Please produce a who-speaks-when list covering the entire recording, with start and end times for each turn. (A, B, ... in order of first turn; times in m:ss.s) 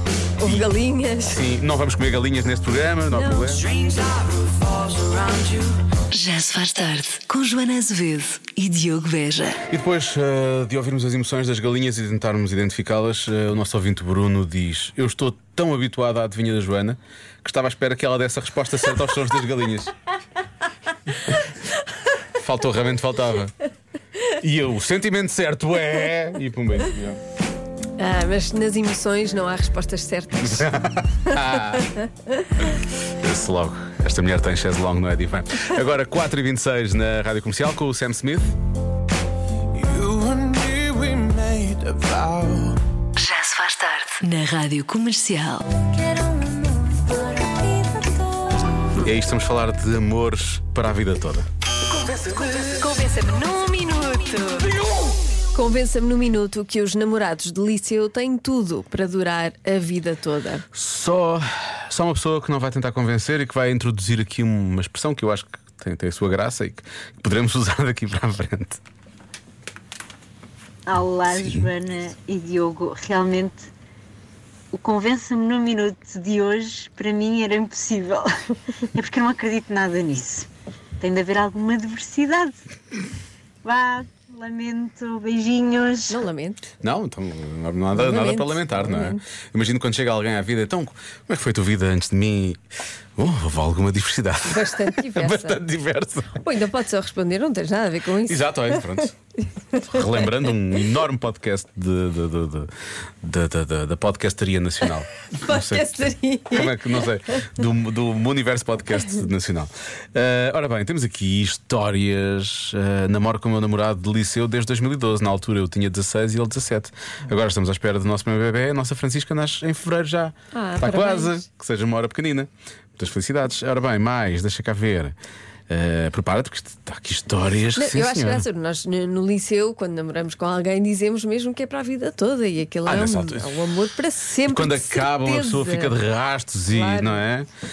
0:00.4-0:01.4 A
0:01.3-0:03.6 B
0:03.1-0:03.6 A
0:03.8-0:05.7 C
0:06.1-0:09.6 D
0:09.7-0:19.9 B
0:22.4-0:23.5 B
0:24.4-0:27.2 B
0:28.0-0:30.7 A
0:30.4-0:31.9 B
0:33.2-0:38.6 B
0:39.9-0:42.3 C
0:43.2-0:45.7 D
0:49.0-0:51.4 B
0:52.4-0:54.6 A
0:52.8-0:54.3 D
0:55.5-1:00.6 A
1:00.7-1:08.8 B
1:10.8-1:13.7 E
1:14.7-1:18.3 E
1:18.9-1:20.5 E
1:21.0-1:22.6 E
1:23.6-1:26.2 E
1:26.1-1:26.7 A
1:26.8-1:32.6 B
1:27.9-1:29.2 A
1:33.2-1:36.4 B
1:34.5-1:35.6 A
1:36.4-1:38.9 A
1:38.3-1:39.1 B
1:39.8-1:42.7 B
1:43.2-2:05.1 B
1:45.4-1:46.8 A
2:00.5-2:01.4 A
2:05.7-2:08.4 B
2:07.8-2:16.0 A
2:12.8-2:13.5 B
2:14.5-2:17.5 B
2:16.7-2:17.2 A